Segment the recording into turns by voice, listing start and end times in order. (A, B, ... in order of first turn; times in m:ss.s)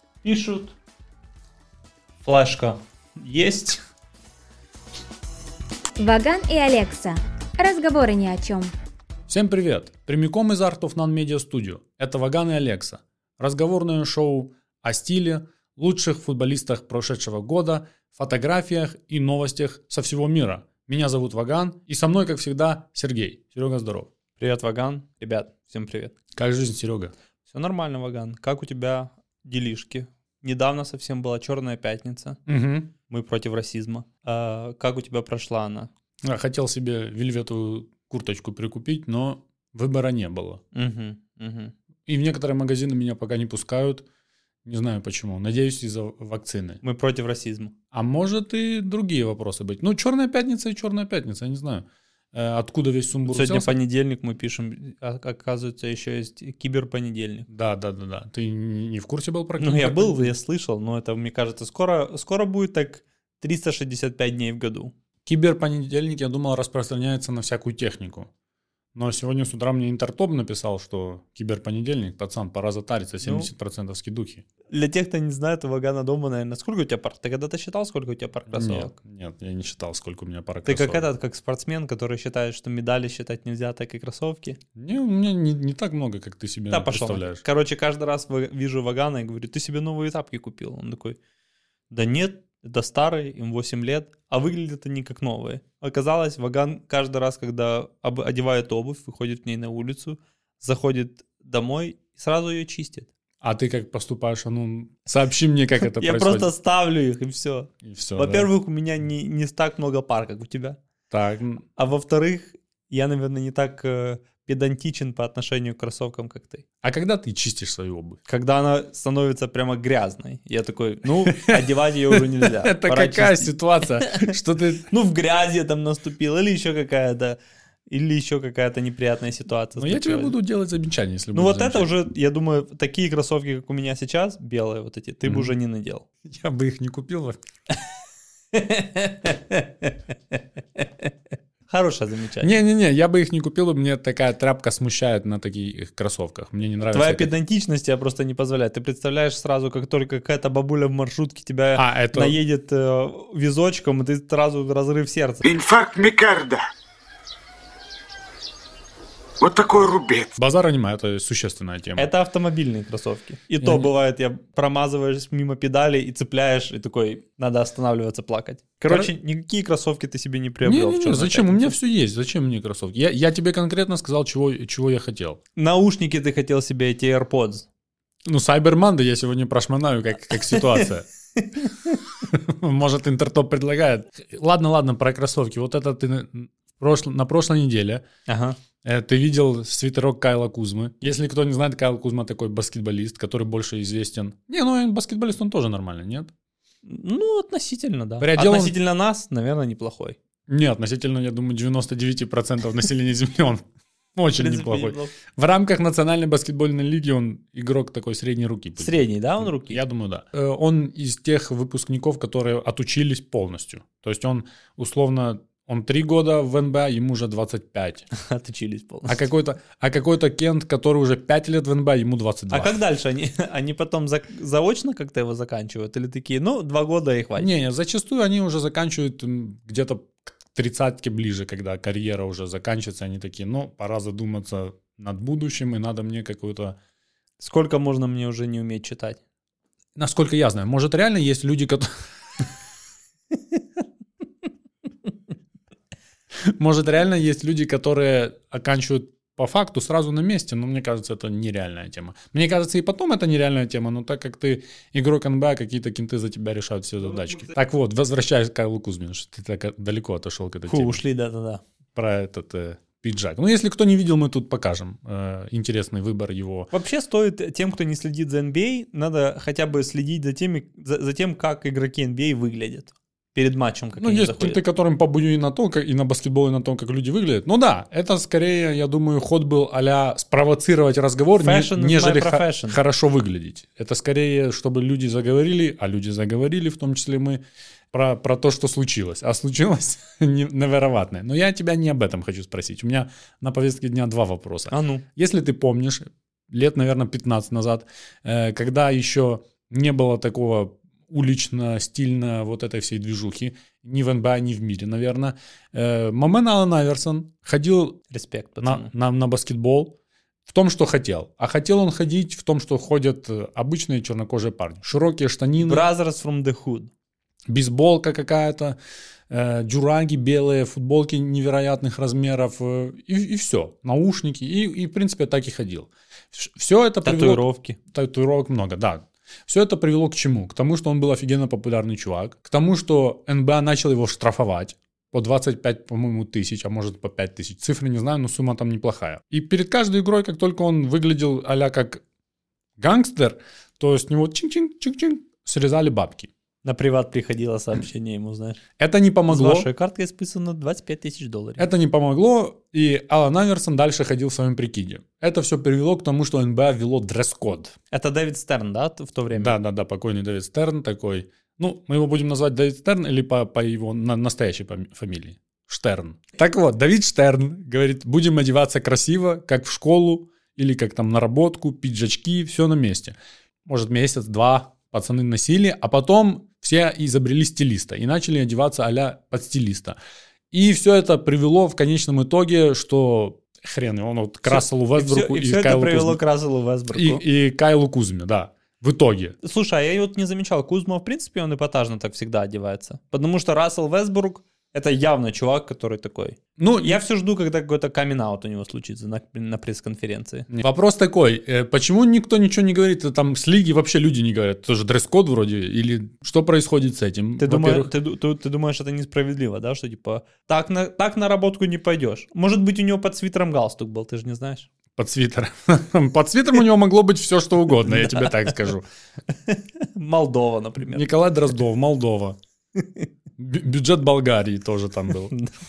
0:00.2-0:00.8 A
0:02.2-0:03.8 A
0:06.0-0:08.7 B
0:09.3-0:24.1 C
0:24.4-0:26.1 A
0:26.4-0:27.1 C
0:27.5-0:32.4 A
0:32.5-0:32.9 C
0:33.1-0:35.9 A
0:36.2-0:40.6 C
0:40.7-0:41.8 A
0:42.1-0:44.1 C
0:44.6-0:46.8 C
0:46.8-0:47.7 A
0:47.9-0:53.8 C
0:53.3-0:57.5 A
0:57.5-1:00.4 C
0:59.6-1:04.9 A
1:05.3-1:08.3 C
1:09.0-1:14.4 C
1:13.2-1:13.5 A
1:14.7-1:19.0 A
1:18.5-1:21.1 C
1:20.6-1:24.6 A
1:24.8-1:27.4 C
1:26.7-1:31.2 A
1:31.9-1:43.1 A
1:43.4-1:46.5 C
1:46.0-1:50.8 A
1:47.8-1:48.5 C
1:51.1-1:51.7 C
1:51.8-1:56.6 A
1:56.8-1:58.2 C
1:58.3-2:04.3 A
2:01.3-2:04.9 C
2:04.9-2:07.4 A
2:07.9-2:10.4 A
2:09.8-2:11.9 C
2:11.3-2:16.0 A
2:15.3-2:15.5 C
2:16.2-2:17.4 C
2:18.5-2:20.0 A
2:20.8-2:21.1 A
2:21.7-2:22.6 A
2:22.4-2:27.3 C
2:26.9-2:35.5 A
2:31.8-2:32.4 C
2:35.4-2:36.6 D
2:39.4-2:40.3 D
2:40.4-2:42.1 C
2:42.0-2:51.8 A
2:43.6-2:43.9 C
2:48.8-2:49.1 C
2:50.6-2:55.4 C
2:55.6-2:57.7 A
2:58.2-3:01.1 C
3:01.4-3:02.0 A
3:02.2-3:08.0 C
3:08.3-3:08.6 A
3:08.8-3:16.3 C
3:16.8-3:20.2 A
3:18.2-3:18.8 C
3:20.5-3:38.1 C
3:24.4-3:25.1 A
3:28.8-3:29.8 A
3:38.2-3:39.2 A
3:39.1-3:42.8 C
3:42.5-3:47.5 A
3:47.4-3:56.8 C
3:57.4-3:59.2 A
4:00.0-4:01.9 C
4:06.4-4:21.0 C
4:17.1-4:17.5 A
4:20.7-4:21.6 A
4:22.0-4:26.7 C
4:26.7-4:34.6 A
4:34.0-4:47.4 C
4:41.4-4:42.8 A
4:47.9-5:08.0 C
4:54.7-4:55.0 A
5:08.1-5:08.9 A
5:08.6-5:10.0 C
5:10.5-5:15.9 C
5:15.6-5:16.9 A
5:17.5-5:18.8 C
5:19.3-5:42.0 C
5:27.0-5:27.8 A
5:42.8-5:46.3 C
5:46.6-5:48.6 A
5:48.8-5:49.7 C
5:49.3-5:51.7 A
5:51.6-5:57.8 C
5:57.9-5:59.6 A
5:59.3-6:20.0 C
6:20.5-6:26.2 C
6:24.4-6:27.2 A
6:26.9-6:29.4 C
6:29.4-6:40.5 A
6:36.6-6:37.0 C
6:40.5-6:47.9 C
6:47.4-6:54.7 A
6:55.0-6:58.9 C
6:57.9-6:58.3 A
6:59.5-7:01.1 A
7:00.8-7:02.4 C
7:02.8-7:03.1 A
7:03.4-7:05.3 C